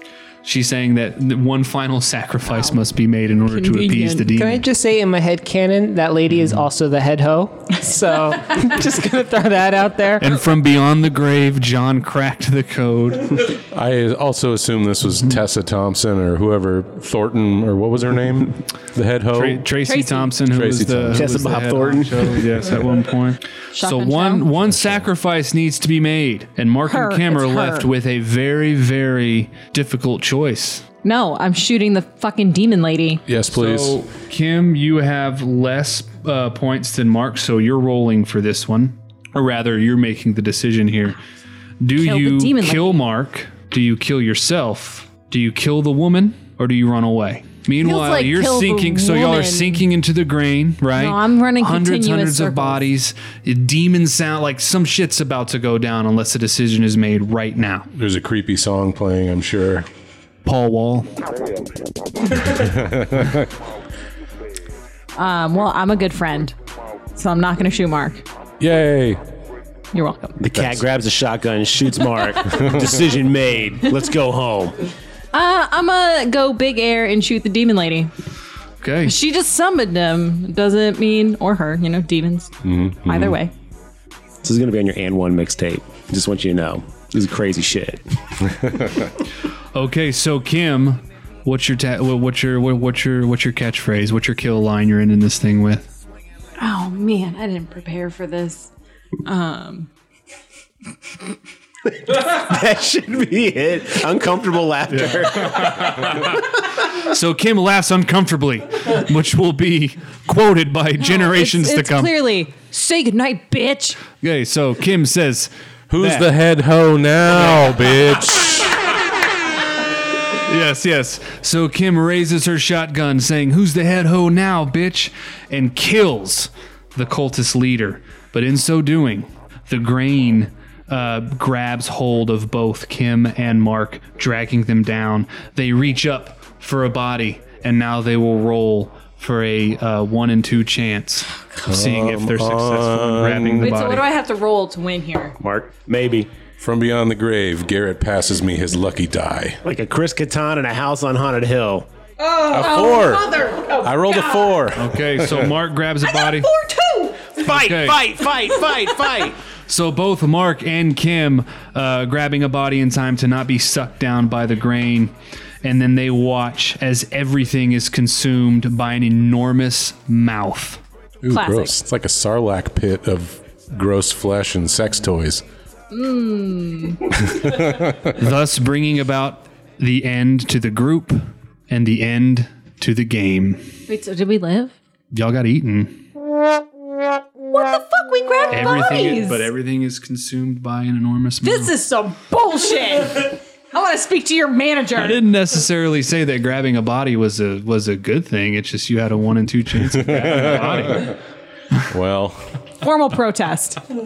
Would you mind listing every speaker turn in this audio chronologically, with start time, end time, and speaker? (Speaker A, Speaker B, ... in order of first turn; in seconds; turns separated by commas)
Speaker A: 0.4-4.6, Speaker B: 3.5-4.3, Speaker C: 4.3-10.3, Speaker A: 10.2-13.5, Speaker D: 13.7-19.6, Speaker A: 19.3-30.9, Speaker B: 19.8-20.3, Speaker D: 20.5-21.4, Speaker E: 21.1-22.5, Speaker B: 23.7-24.5, Speaker B: 26.9-27.9, Speaker B: 31.0-33.2, Speaker D: 33.3-34.0, Speaker A: 33.5-41.2, Speaker A: 41.8-57.9, Speaker B: 42.0-43.0, Speaker B: 47.8-49.8, Speaker B: 50.9-52.8, Speaker D: 57.9-59.9, Speaker A: 60.4-61.1, Speaker D: 62.4-63.5, Speaker B: 65.1-66.5, Speaker B: 67.1-68.2, Speaker D: 68.6-69.2, Speaker B: 69.9-70.4, Speaker E: 70.4-74.8, Speaker D: 70.5-70.8, Speaker B: 75.3-78.1, Speaker A: 78.8-79.1, Speaker B: 79.0-82.5, Speaker D: 82.6-83.4, Speaker B: 83.0-83.5, Speaker E: 84.4-88.0, Speaker A: 89.7-95.9, Speaker B: 96.6-98.7, Speaker B: 99.2-99.9, Speaker E: 102.0-106.0, Speaker A: 105.0-106.3, Speaker A: 106.9-112.1, Speaker B: 111.0-114.0, Speaker A: 114.2-116.3, Speaker D: 115.9-118.7, Speaker A: 117.4-117.6, Speaker A: 120.3-144.1, Speaker D: 141.6-143.7, Speaker B: 143.6-145.4, Speaker E: 145.4-146.3, Speaker D: 146.6-149.6, Speaker E: 149.6-151.9, Speaker B: 152.2-154.5, Speaker D: 152.4-155.5, Speaker A: 154.7-156.5, Speaker B: 156.1-157.4, Speaker E: 157.4-159.4, Speaker A: 157.4-158.0, Speaker A: 159.7-170.8, Speaker D: 171.2-175.4, Speaker B: 171.3-171.7, Speaker B: 175.9-177.0, Speaker D: 177.4-177.8, Speaker A: 178.1-183.7, Speaker B: 183.9-184.7, Speaker A: 185.1-186.0, Speaker B: 187.5-189.5, Speaker A: 188.5-191.7, Speaker B: 191.4-195.2, Speaker A: 194.9-201.2, Speaker D: 199.8-201.1, Speaker D: 201.8-202.4, Speaker B: 202.8-203.8